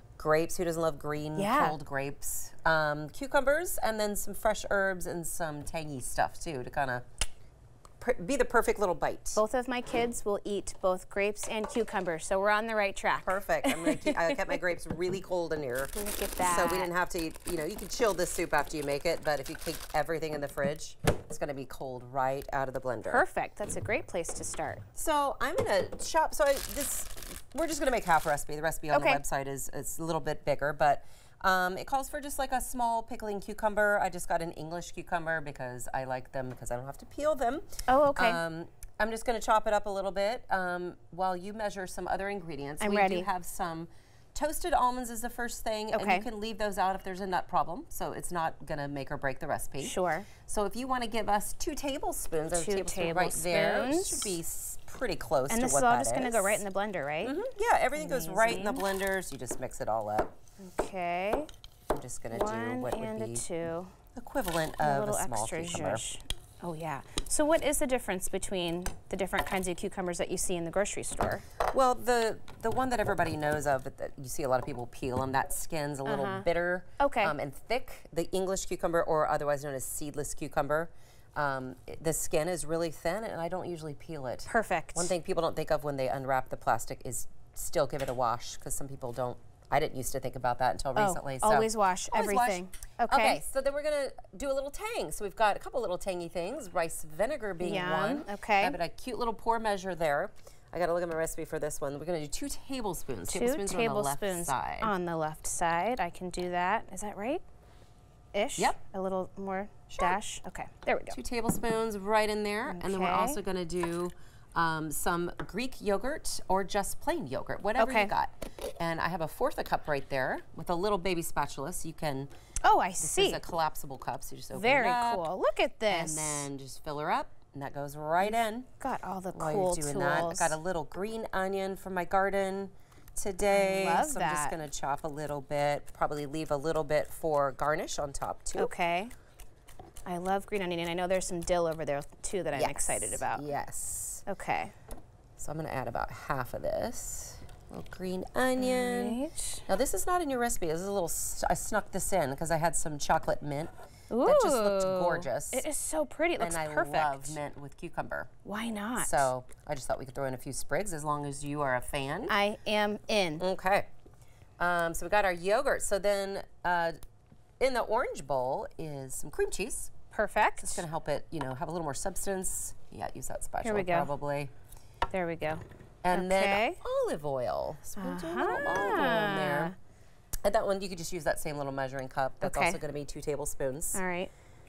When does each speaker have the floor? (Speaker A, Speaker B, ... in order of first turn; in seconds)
Speaker A: 0.2-7.0, 8.0-9.4, 13.2-23.2, 24.9-56.6, 57.2-60.3, 61.9-63.4, 64.2-66.0, 71.7-104.9, 109.9-110.2, 111.1-122.3, 123.0-125.2, 125.9-128.7, 129.3-138.7, 142.5-144.2, 145.4-153.7, 154.2-155.6, 156.4-158.3, 159.0-162.3, 163.4-163.9, 164.6-167.0, 167.6-169.9, 170.6-174.5, 176.0-179.8, 180.4-184.0
Speaker B: 1.4-1.8, 9.4-14.6, 15.9-16.9, 23.1-24.8, 28.9-29.2, 37.9-38.4, 42.8-43.3, 45.9-46.3, 49.8-50.3, 52.5-54.4, 55.5-57.4, 58.0-58.9, 60.6-61.5, 62.3-63.9, 64.8-71.4, 76.1-76.5, 77.0-77.3, 84.5-85.1, 91.0-93.4, 97.6-98.8, 103.3-107.4, 108.3-111.2, 112.7-113.4, 117.8-118.1, 122.6-123.4, 124.5-126.5, 128.2-130.6, 133.5-134.6, 138.6-139.1, 140.1-143.4, 144.3-144.7, 148.6-149.6, 154.1-157.4, 158.4-159.3, 162.3-163.4, 170.1-170.8, 173.6-174.1, 175.1-176.8, 178.0-179.8, 182.4-182.8, 183.9-184.3